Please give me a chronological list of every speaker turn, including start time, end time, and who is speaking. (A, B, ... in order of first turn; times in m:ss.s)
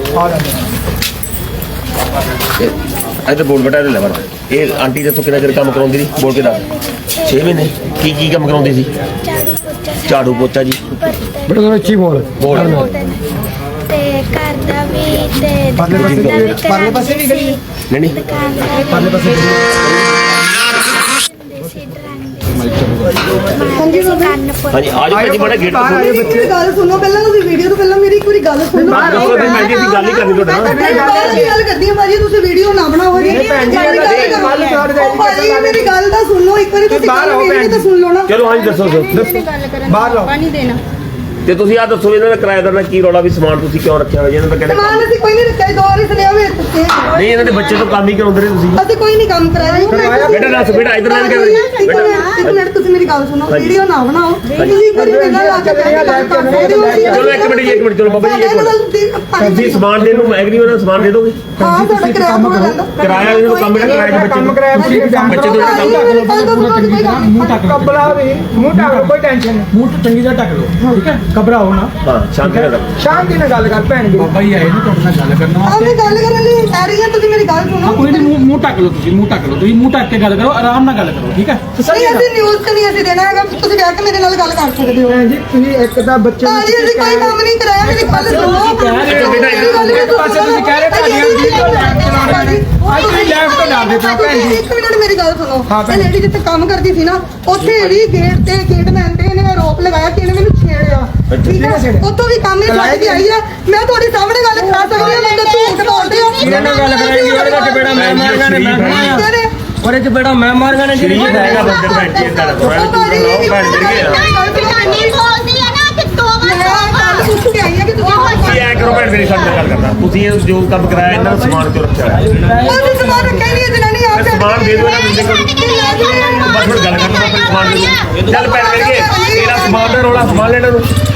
0:00.1-0:00.6 A
0:03.2-0:06.6 B
0:06.2-0:07.6 C
0:07.2-0:08.9 B
0:09.2-0:11.7 C
0:10.0-0:10.8 B
0:11.5-0:12.6 A
0:12.4-0:12.9 B
0:12.4-0:13.2 C
0:13.9-0:19.6 C
0:15.8-0:17.6 A
0:15.9-0:16.6 B
0:17.9-0:18.2 B
0:18.9-0:19.6 A
0:20.4-0:25.0 C
0:23.7-0:24.4 D
0:24.7-0:26.4 B
0:25.1-0:26.6 A
0:26.0-0:39.3 D
0:28.7-0:29.7 A
0:28.9-0:31.0 B
0:30.6-0:31.6 A
0:30.7-0:31.5 E
0:33.1-0:36.0 A
0:33.3-0:34.8 E
0:34.0-0:34.4 B
0:36.9-0:37.9 A
0:38.3-0:39.2 B
0:38.3-0:40.8 E
0:39.1-0:40.3 A
0:41.4-0:45.1 B
0:44.6-0:47.7 D
0:47.1-0:47.9 E
0:47.1-0:48.8 B
0:48.8-0:59.8 D
0:49.6-0:50.5 E
0:49.9-0:50.5 A
0:50.3-0:52.6 B
0:51.0-0:52.4 E
0:53.5-0:53.8 B
0:54.4-0:54.8 E
0:54.5-0:54.8 B
0:54.9-0:57.5 A
0:56.3-0:56.9 E
0:57.1-0:58.8 B
0:59.4-1:01.4 B
0:59.9-1:00.5 A
1:01.6-1:07.7 D
1:01.6-1:02.8 F
1:01.7-1:02.7 A
1:03.0-1:06.0 B
1:03.8-1:06.1 A
1:04.7-1:09.1 F
1:07.5-1:09.7 A
1:09.7-1:12.7 F
1:12.0-1:12.9 B
1:13.0-1:14.3 A
1:14.1-1:16.2 F
1:15.6-1:18.3 D
1:17.8-1:22.2 F
1:21.9-1:25.2 D
1:25.1-1:27.4 A
1:26.4-1:48.1 D
1:27.8-1:29.8 F
1:28.1-1:34.6 A
1:29.1-1:30.0 B
1:35.7-1:36.1 A
1:41.3-1:41.6 B
1:41.5-1:42.1 A
1:42.6-1:43.3 A
1:44.8-1:46.8 E
1:46.4-1:49.3 A
1:47.9-1:49.2 B
1:48.7-1:49.5 D
1:49.8-1:52.1 A
1:50.9-1:54.2 B
1:51.1-1:55.0 D
1:53.7-1:57.3 E
1:56.4-1:59.1 D
1:58.0-1:59.3 E
1:58.4-2:02.3 B
2:01.1-2:01.5 F
2:02.3-2:03.5 F
2:02.5-2:06.8 D
2:04.1-2:10.9 B
2:05.1-2:09.2 E
2:08.3-2:10.2 D